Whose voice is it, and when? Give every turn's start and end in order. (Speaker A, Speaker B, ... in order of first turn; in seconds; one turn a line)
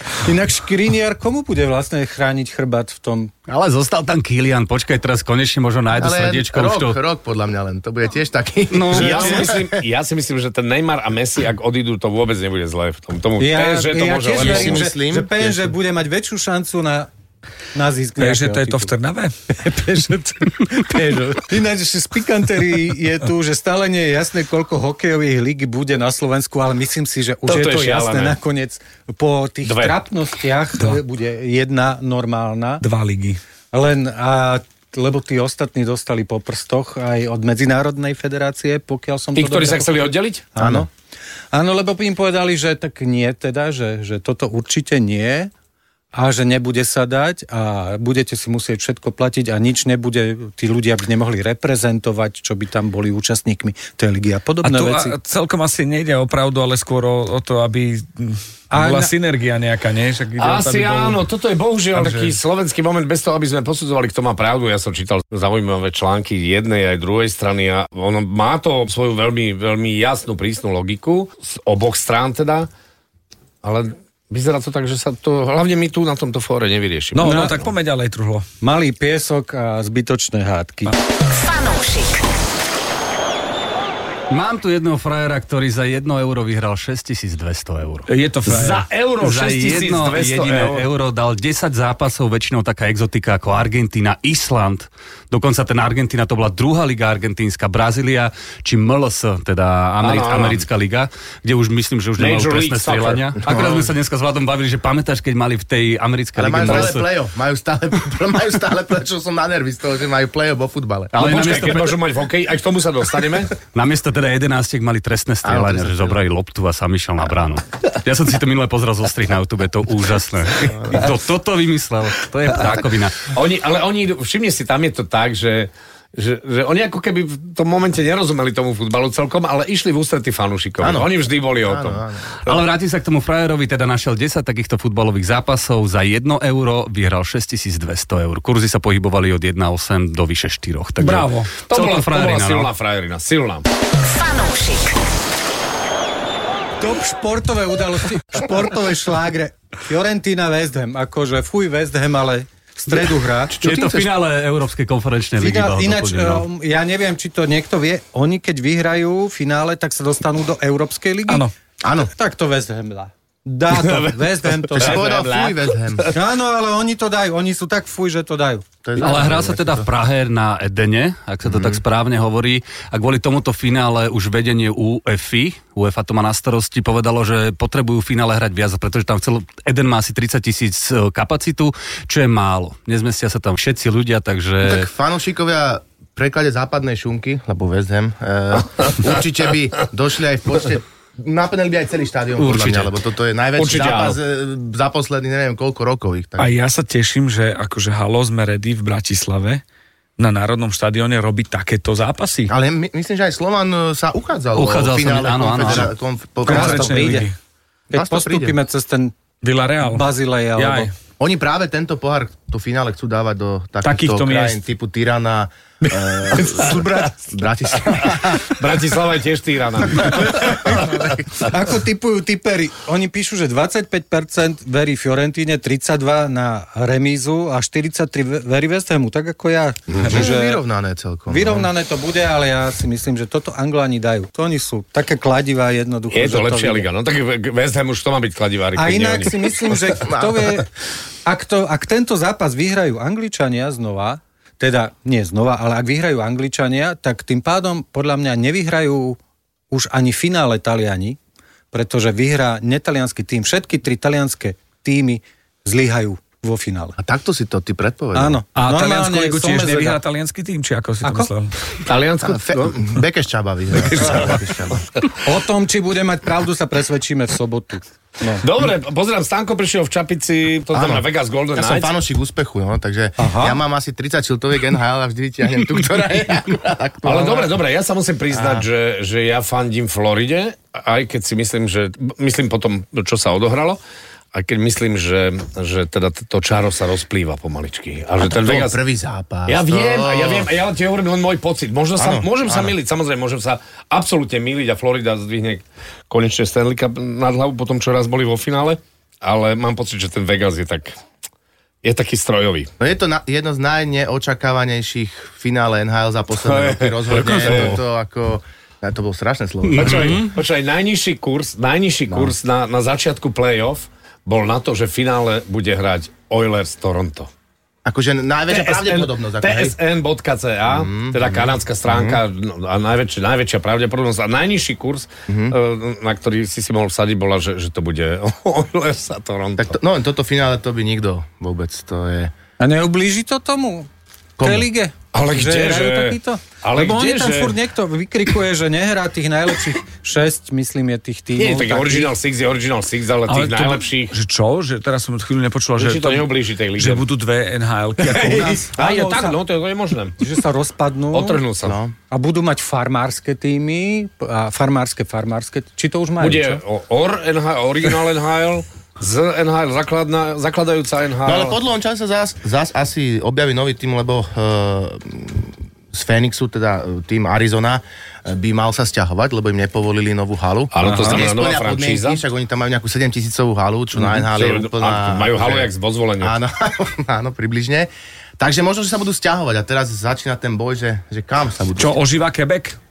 Speaker A: 0.2-3.3
Speaker B: 3.5-7.0
Speaker C: 5.9-9.8
Speaker B: 8.7-9.5
Speaker D: 8.9-14.9
Speaker A: 13.4-17.1
Speaker C: 14.3-15.3
Speaker A: 17.7-18.9
Speaker E: 18.2-19.3
Speaker A: 19.5-32.8
Speaker D: 27.5-28.4
Speaker D: 29.6-29.9
Speaker E: 32.8-33.4
Speaker A: 33.7-40.0
Speaker D: 39.3-40.4
Speaker A: 40.5-40.9
Speaker C: 40.6-40.9
Speaker A: 41.5-45.5
Speaker A: 46.1-55.2
Speaker E: 54.6-61.2
Speaker A: 58.7-59.1
Speaker D: 60.4-72.7
Speaker E: 61.9-62.4
Speaker D: 73.6-77.7
Speaker E: 77.1-78.5
Speaker A: 78.6-80.9
Speaker F: 81.3-82.2
Speaker B: 84.3-88.1
Speaker E: 88.1-88.8
Speaker D: 88.5-90.8
Speaker B: 89.2-107.0
Speaker D: 100.0-100.7
Speaker D: 102.2-103.6
Speaker C: 106.3-111.1
Speaker B: 111.1-112.0
Speaker D: 111.2-113.5
Speaker B: 113.7-123.3
Speaker C: 115.4-116.2
Speaker C: 120.6-121.0
Speaker D: 123.3-132.0
Speaker C: 130.8-131.1
Speaker C: 131.6-132.4
Speaker B: 132.4-142.7
Speaker E: 141.0-141.6
Speaker D: 141.7-143.7
Speaker F: 144.0-145.0
Speaker A: 146.8-153.6
Speaker C: 153.6-154.1
Speaker B: 153.6-156.4
Speaker A: 155.4-161.5
Speaker C: 161.8-162.1
Speaker A: 162.1-165.0
Speaker D: 164.7-166.1
Speaker C: 164.8-166.1
Speaker A: 166.1-168.6
Speaker C: 168.8-169.9
Speaker B: 169.0-184.9
Speaker C: 171.4-171.8
Speaker C: 184.6-196.5
Speaker B: 192.4-192.9
Speaker D: 193.6-194.2
Speaker E: 196.4-199.6
Speaker E: 200.2-202.5
Speaker C: 202.5-207.2
Speaker B: 204.5-205.9
Speaker E: 206.4-207.3
Speaker A: 206.4-207.3
Speaker A: 207.9-209.2
Speaker C: 207.9-208.6
Speaker E: 209.4-210.9
Speaker A: 209.8-210.9
Speaker C: 211.2-218.7
Speaker E: 213.8-214.6
Speaker D: 218.4-220.6
Speaker A: 220.0-230.6
Speaker C: 220.2-221.2
Speaker C: 229.9-231.7
Speaker A: 231.3-236.9
Speaker D: 236.1-239.5
Speaker A: 238.8-240.7
Speaker C: 240.0-240.5
Speaker A: 241.2-249.2
Speaker A: 249.7-251.2
Speaker A: 251.7-257.0
Speaker C: 257.0-258.4
Speaker A: 258.1-260.0
Speaker E: 258.5-261.5
Speaker A: 261.0-261.3
Speaker D: 261.8-262.8
Speaker C: 262.2-264.9
Speaker D: 263.8-264.4
Speaker A: 265.2-268.4
Speaker D: 268.4-271.9
Speaker C: 270.7-277.6
Speaker A: 273.2-273.6
Speaker D: 277.0-283.8
Speaker C: 278.3-278.6
Speaker D: 284.3-288.8
Speaker C: 288.2-290.5
Speaker D: 289.5-300.9
Speaker C: 292.0-292.7
Speaker D: 301.8-302.7
Speaker C: 302.8-310.2
Speaker D: 306.4-307.8
Speaker B: 309.6-310.3
Speaker D: 309.8-317.3
Speaker C: 317.8-319.8
Speaker D: 318.5-329.8
Speaker C: 320.7-322.2
Speaker C: 325.3-325.6
Speaker C: 329.6-332.3
Speaker A: 332.6-333.9
Speaker C: 334.4-334.7
Speaker A: 334.4-342.1
Speaker D: 335.1-337.5
Speaker D: 341.4-344.1
Speaker E: 343.3-348.7
Speaker D: 345.8-347.1
Speaker D: 348.0-350.2
Speaker A: 348.1-349.4
Speaker A: 350.2-351.4
Speaker D: 351.1-351.8
Speaker C: 351.6-351.9
Speaker A: 352.1-356.6
Speaker D: 356.2-361.6
Speaker C: 361.2-382.0
Speaker D: 370.7-372.2
Speaker E: 370.8-371.2
Speaker D: 374.1-376.4
Speaker E: 381.8-382.8